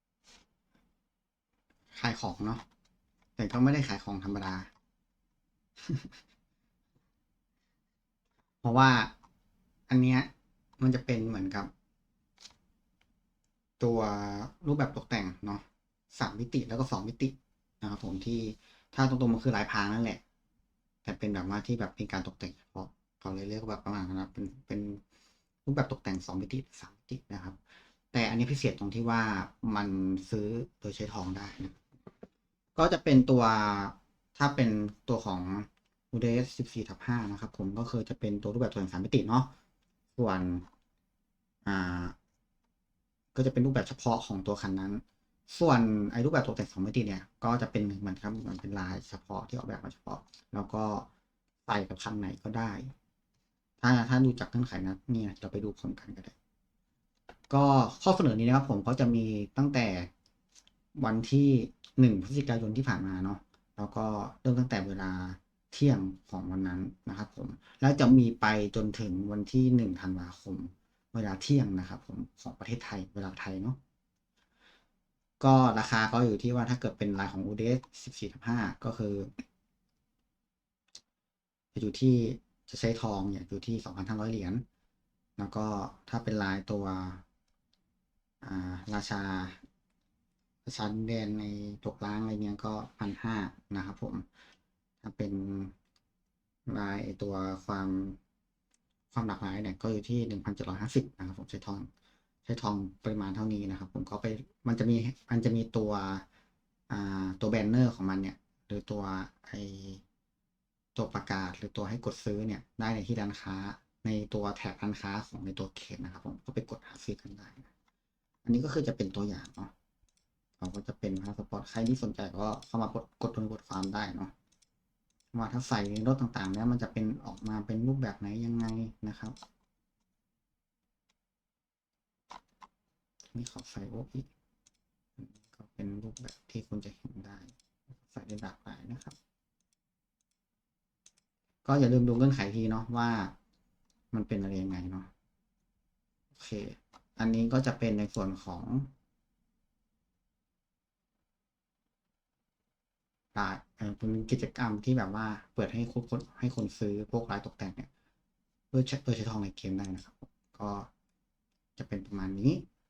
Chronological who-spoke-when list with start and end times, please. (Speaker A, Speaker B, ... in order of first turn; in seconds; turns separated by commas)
Speaker A: 1.9-2.6, Speaker A: 3.4-4.7, Speaker A: 5.8-6.1, Speaker A: 8.6-9.1, Speaker A: 9.9-11.7, Speaker A: 13.8-20.2, Speaker A: 21.0-25.0, Speaker A: 25.6-27.6, Speaker A: 28.1-31.7, Speaker A: 32.8-39.5, Speaker A: 40.1-40.6, Speaker A: 41.6-42.1, Speaker A: 43.3-51.1, Speaker A: 51.6-52.9, Speaker A: 53.8-56.3, Speaker A: 57.5-60.1, Speaker A: 60.9-73.8, Speaker A: 75.4-79.3, Speaker A: 81.7-84.6, Speaker A: 85.4-87.2, Speaker A: 88.4-89.6, Speaker A: 90.7-94.2, Speaker A: 95.0-95.7, Speaker A: 96.7-98.2, Speaker A: 99.1-101.9, Speaker A: 102.5-106.2, Speaker A: 106.9-110.0, Speaker A: 110.9-117.7, Speaker A: 118.4-119.7, Speaker A: 120.6-124.3, Speaker A: 125.3-129.3, Speaker A: 133.3-134.3, Speaker A: 135.2-139.2, Speaker A: 141.6-143.3, Speaker A: 144.1-145.1, Speaker A: 146.3-148.9, Speaker A: 153.3-157.9, Speaker A: 158.7-160.9, Speaker A: 161.8-162.7